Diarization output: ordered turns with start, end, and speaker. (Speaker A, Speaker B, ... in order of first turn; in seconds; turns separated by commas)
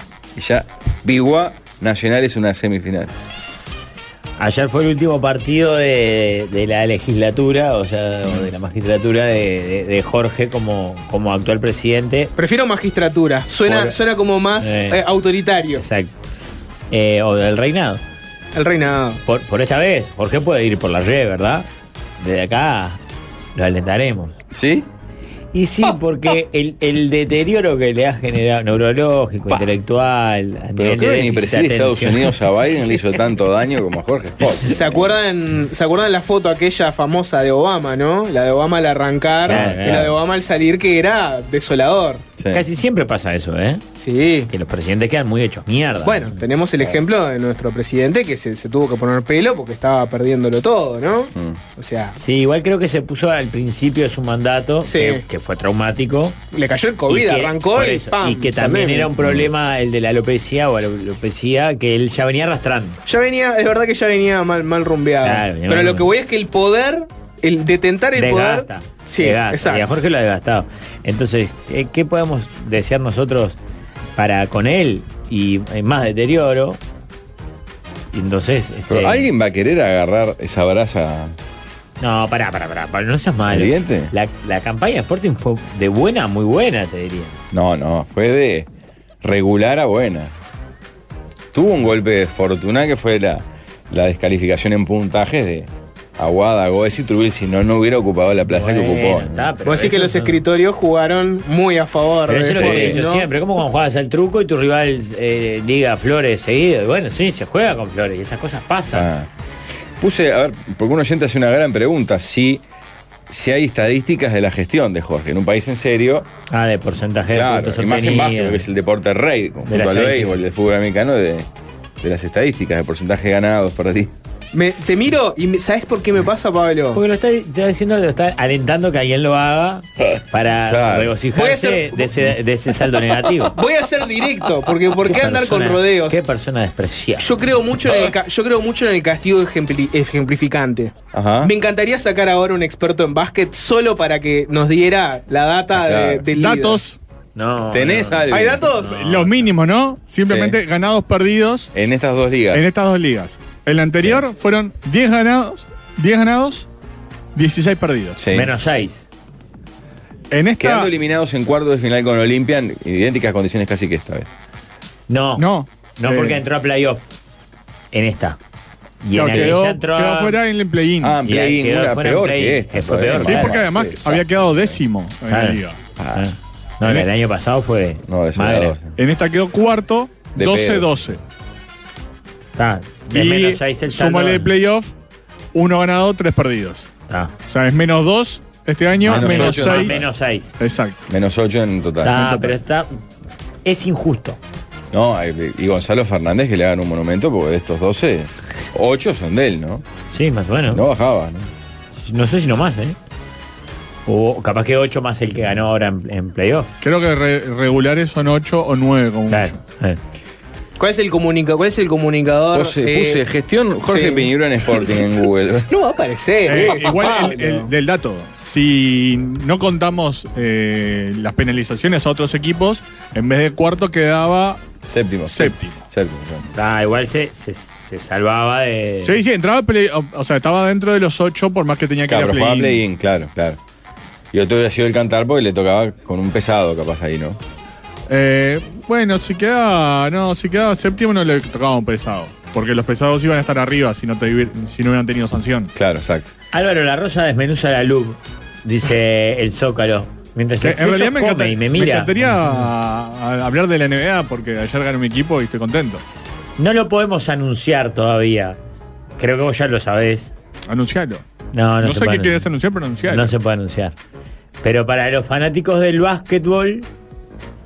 Speaker A: 0.4-3.1, Speaker B: 4.4-12.3, Speaker C: 12.4-15.8, Speaker B: 13.7-14.0, Speaker B: 14.6-15.0, Speaker B: 15.8-16.1, Speaker B: 16.9-18.0, Speaker C: 18.6-19.2, Speaker B: 19.3-21.7, Speaker B: 22.2-23.0, Speaker B: 23.6-24.4, Speaker A: 24.5-24.9, Speaker B: 25.5-32.4, Speaker A: 30.8-35.2, Speaker C: 34.6-42.2, Speaker B: 39.5-40.1, Speaker A: 39.5-39.8, Speaker A: 42.4-42.6, Speaker B: 42.5-43.8, Speaker C: 44.0-44.5, Speaker B: 44.5-46.4, Speaker C: 46.0-52.2, Speaker A: 51.4-51.6, Speaker B: 52.2-56.4, Speaker C: 54.8-55.2, Speaker C: 56.5-59.1, Speaker B: 57.1-63.0, Speaker A: 59.2-59.5, Speaker C: 63.1-70.0, Speaker B: 65.2-66.1, Speaker B: 68.2-73.6, Speaker B: 74.2-76.8, Speaker B: 78.1-79.3, Speaker A: 78.9-81.3, Speaker B: 82.0-87.4, Speaker A: 83.5-84.1, Speaker A: 87.5-88.7, Speaker A: 89.2-90.3, Speaker A: 91.5-99.5, Speaker B: 98.5-100.4, Speaker C: 99.7-103.3, Speaker B: 102.3-109.1, Speaker A: 102.5-103.0, Speaker A: 108.9-109.3, Speaker A: 110.0-112.6, Speaker A: 113.3-116.3, Speaker B: 116.5-118.7, Speaker A: 117.3-121.5, Speaker B: 119.7-120.3, Speaker A: 122.0-124.1, Speaker C: 124.5-127.0, Speaker B: 126.9-133.6, Speaker A: 130.7-131.1, Speaker C: 131.3-132.0, Speaker C: 133.5-136.2, Speaker B: 135.0-137.4, Speaker C: 137.2-146.8, Speaker A: 141.1-141.5, Speaker A: 145.7-146.3, Speaker D: 146.3-147.0, Speaker B: 147.3-149.5, Speaker A: 147.7-148.7, Speaker C: 148.3-149.0, Speaker D: 148.9-151.7, Speaker A: 150.2-150.6, Speaker A: 151.8-152.7, Speaker D: 152.5-156.7, Speaker D: 157.3-158.2, Speaker A: 158.2-158.5, Speaker B: 158.3-159.1, Speaker D: 160.3-160.9, Speaker A: 160.6-164.3, Speaker B: 165.1-165.5, Speaker D: 165.4-166.4, Speaker B: 166.0-167.1, Speaker B: 167.9-168.4, Speaker B: 169.0-170.4, Speaker D: 169.2-171.2, Speaker A: 169.2-169.5, Speaker A: 171.0-174.7, Speaker B: 171.2-173.7, Speaker D: 173.2-175.8, Speaker B: 175.3-175.6, Speaker A: 176.0-176.2, Speaker B: 176.2-178.8, Speaker A: 178.1-178.9, Speaker D: 179.0-181.2, Speaker A: 180.4-180.9, Speaker B: 182.6-184.5, Speaker D: 183.1-184.9, Speaker D: 185.5-186.9, Speaker D: 187.5-190.0, Speaker A: 189.0-190.0, Speaker B: 189.1-190.6, Speaker D: 190.6-191.0, Speaker A: 191.1-192.4, Speaker B: 192.0-192.9, Speaker D: 192.1-192.5, Speaker B: 193.7-194.4, Speaker A: 194.9-199.8, Speaker B: 200.1-200.8, Speaker A: 200.7-201.5, Speaker B: 201.9-203.0, Speaker B: 204.1-206.7, Speaker D: 206.8-209.6, Speaker B: 209.3-210.0, Speaker C: 210.8-213.2, Speaker A: 212.5-215.7, Speaker C: 213.8-214.3, Speaker C: 215.7-217.7, Speaker D: 216.5-224.6, Speaker A: 224.8-226.5, Speaker D: 225.3-225.8, Speaker B: 226.5-229.2, Speaker D: 229.0-232.8, Speaker A: 232.1-233.6, Speaker A: 234.3-237.4, Speaker D: 238.1-245.7, Speaker A: 245.8-246.3, Speaker B: 246.5-252.3, Speaker D: 250.6-256.0, Speaker B: 256.6-258.6, Speaker B: 259.2-260.3, Speaker D: 260.7-261.2, Speaker B: 261.5-262.5, Speaker D: 261.8-263.3, Speaker B: 263.1-263.9, Speaker B: 264.6-266.9